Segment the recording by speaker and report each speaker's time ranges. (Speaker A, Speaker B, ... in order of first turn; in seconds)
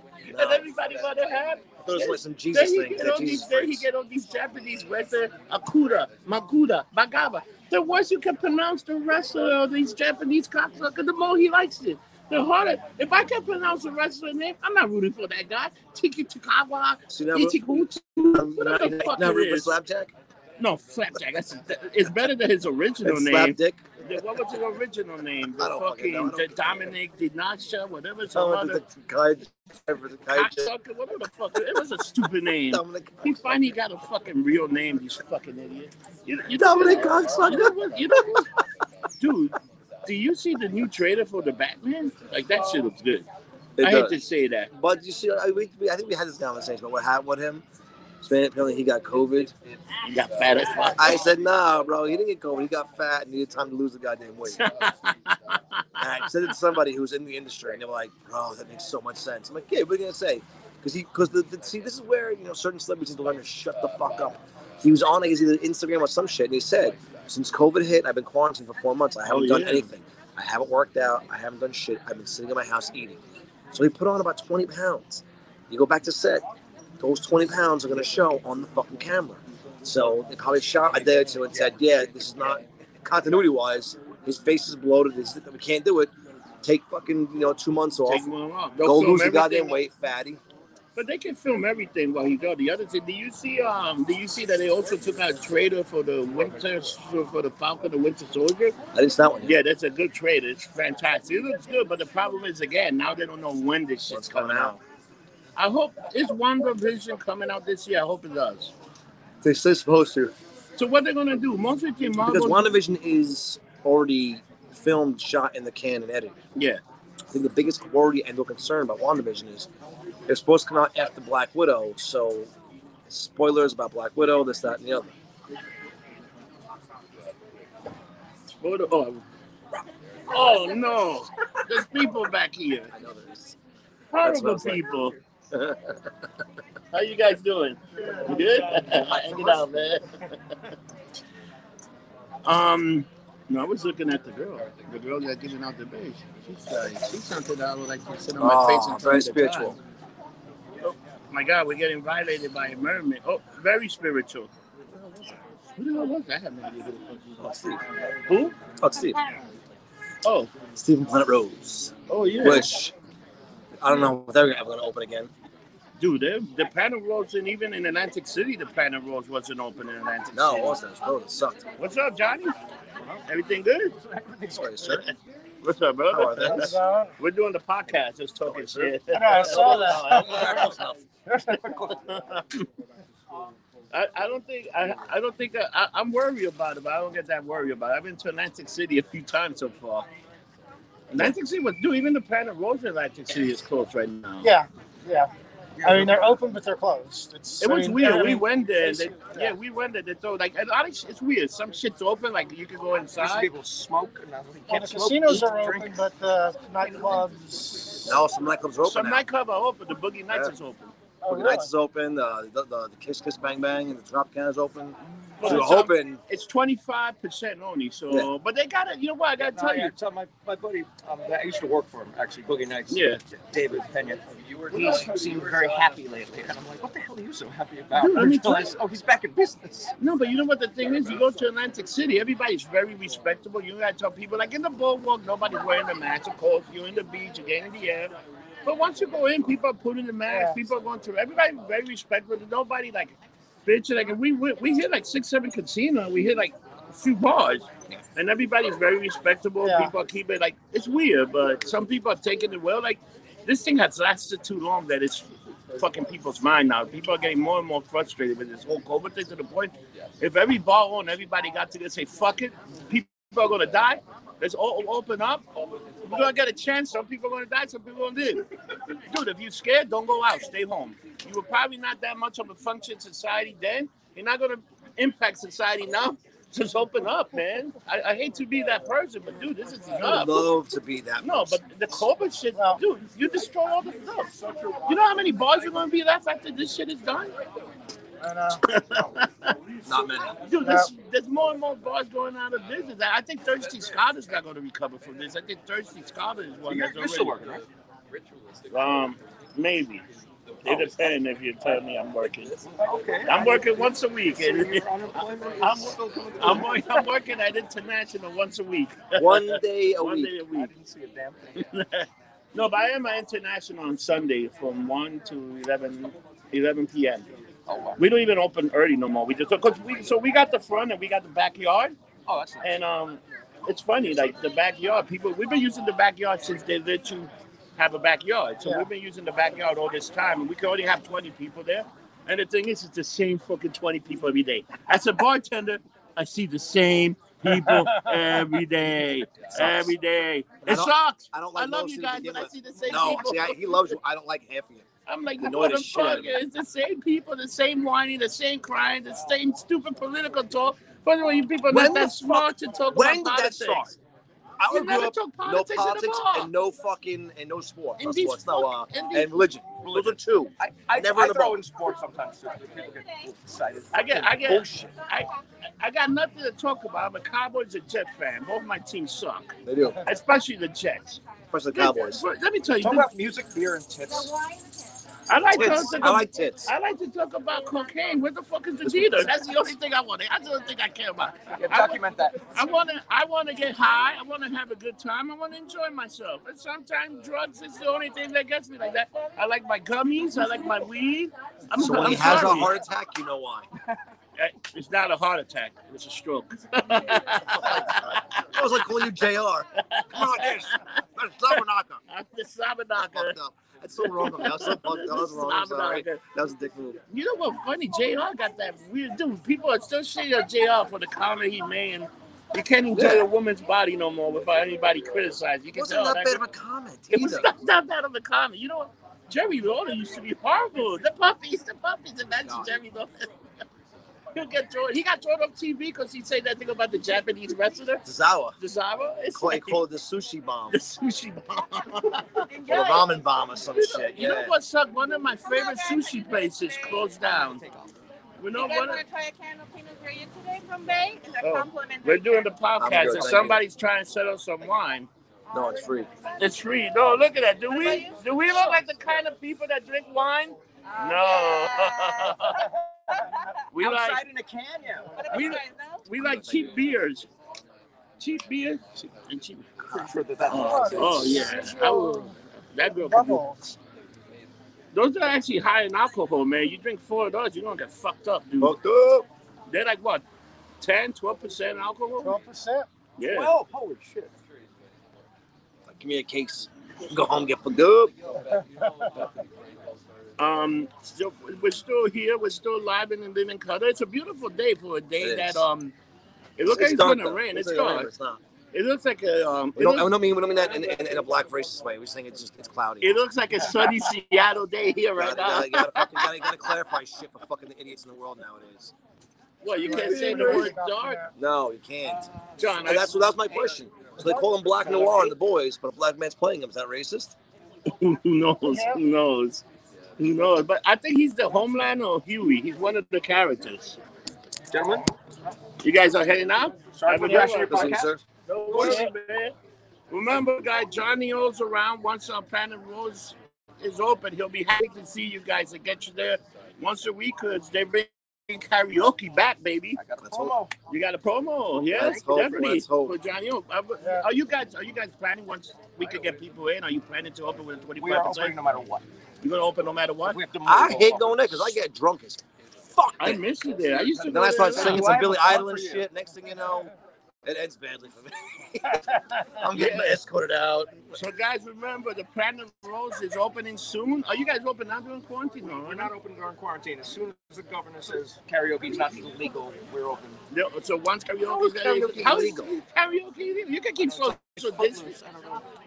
Speaker A: 0.3-0.7, 1.8-3.9, 17.1-17.7, 18.3-20.1, 23.0-23.8, 25.6-26.9, 28.3-30.7, 32.7-33.6, 36.5-38.2, 43.8-44.2, 44.7-47.6, 48.2-49.5, 51.0-54.6, 56.0-73.2, 73.7-76.4, 77.0-86.1, 86.6-88.3, 88.8-90.4, 98.9-99.6, 104.1-104.8, 109.4-110.3, 112.2-116.3, 117.3-119.7, 120.3-122.5, 123.1-125.1, 132.9-133.6, 134.2-134.9, 135.5-136.1, 138.9-139.6, 148.4-149.8, 155.0-155.3, 157.4-157.8, 158.8-159.2, 160.7-162.9, 163.8-165.3, 170.3-171.7, 174.5-175.1, 176.1-176.8, 178.4-181.0, 208.1-209.2, 211.3-216.2, 280.0-281.6, 289.8-290.4, 309.1-310.3, 339.5-339.9, 340.6-344.9, 345.4-346.4, 351.7-354.0, 354.6-361.6, 364.4-364.9, 369.6-370.0, 371.5-372.2, 375.5-376.7, 378.8-379.3, 391.7-393.7, 397.5-402.0, 403.0-407.0, 412.9-413.3, 415.7-417.5, 422.4-422.7, 428.0-428.6, 429.3-430.8, 432.7-434.5, 442.8-443.6, 445.5-446.1, 456.2-456.7, 468.6-469.3, 475.9-478.1, 485.2-485.7, 486.7-488.4, 489.8-493.2, 495.2-498.9, 500.2-500.7, 501.4-507.3, 517.7-518.2, 530.2-530.5, 531.9-533.2, 540.6-543.4, 544.2-546.9, 547.5-551.1, 561.5-562.7
Speaker B: 0.3-19.7, 20.6-28.8, 30.3-38.5, 39.2-43.3, 43.8-44.7, 50.0-51.2, 54.5-56.5, 69.3-69.9, 88.0-89.8, 91.0-98.7, 99.5-104.8, 105.5-108.7, 110.8-112.7, 128.6-129.2, 130.3-132.9, 134.1-135.2, 136.9-140.6, 142.4-149.8, 150.8-154.5, 155.8-157.2, 158.3-158.6, 160.2-160.5, 162.1-162.7, 166.0-170.8, 171.8-172.5, 173.3-173.9, 175.6-180.8, 181.7-182.6, 183.9-190.1, 191.1-194.5, 197.6-203.5, 208.8-210.9, 215.3-219.9, 222.9-223.2, 227.9-228.7, 230.0-238.1, 238.6-243.1, 243.7-265.4, 266.0-268.4, 269.1-280.5, 281.2-284.3, 284.9-287.3, 288.6-289.6, 290.4-297.4, 298.7-300.0, 300.6-302.5, 303.3-304.9, 305.6-310.7, 311.6-317.3, 318.0-321.9, 322.6-343.9, 345.1-353.9, 354.7-356.5, 358.0-359.4, 363.9-365.3, 365.8-371.2, 371.7-373.1, 375.3-392.7, 394.4-398.4, 399.8-400.9, 402.1-403.3, 404.0-406.2, 407.1-416.4, 417.1-423.3, 424.3-428.1, 428.6-429.8, 430.7-432.5, 433.7-437.6, 438.4-439.0, 441.4-445.1, 446.4-452.7, 453.7-454.2, 455.3-457.3, 458.2-459.8, 460.5-463.4, 464.9-468.8, 469.7-470.2, 470.8-472.4, 473.2-473.5, 480.4-485.9, 486.6-488.1, 488.7-490.1, 493.0-496.3, 499.6-501.2, 502.6-503.2, 507.9-509.6, 510.2-514.0, 515.8-519.5, 520.1-530.0, 530.9-538.5, 539.4-540.4, 543.2-545.2, 549.7-550.2, 551.1-556.1, 560.5-565.2
Speaker C: 174.0-175.0, 195.8-196.2, 203.2-206.0, 206.8-207.2, 219.4-229.9, 296.7-297.6, 302.7-306.9, 310.5-311.6, 317.7-318.0, 322.3-322.8, 359.8-364.4, 372.8-374.4, 381.5-382.4, 437.2-437.9, 453.8-455.2, 459.9-461.5, 473.2-474.3, 504.8-505.3, 514.7-515.1, 516.9-518.2, 518.7-519.0, 530.0-530.7, 538.0-539.0, 540.2-541.7, 544.5-546.0, 555.6-560.4, 564.0-565.6
Speaker D: 176.4-177.1, 179.1-180.7, 181.3-181.6, 194.4-195.3, 195.8-199.5, 204.7-208.2, 211.2-211.7, 240.3-240.6, 249.6-249.9, 282.6-282.8, 288.2-288.6, 290.6-290.9, 337.5-338.4, 452.6-453.4, 460.5-462.3, 462.9-463.8, 472.2-472.9, 478.5-479.3, 499.7-501.3, 508.7-509.0, 517.2-517.5, 518.7-519.1, 534.0-534.3
Speaker E: 362.8-363.1, 432.4-433.2, 435.4-437.1, 438.5-442.5, 445.5-446.4, 447.7-448.8, 450.9-453.4, 455.2-456.0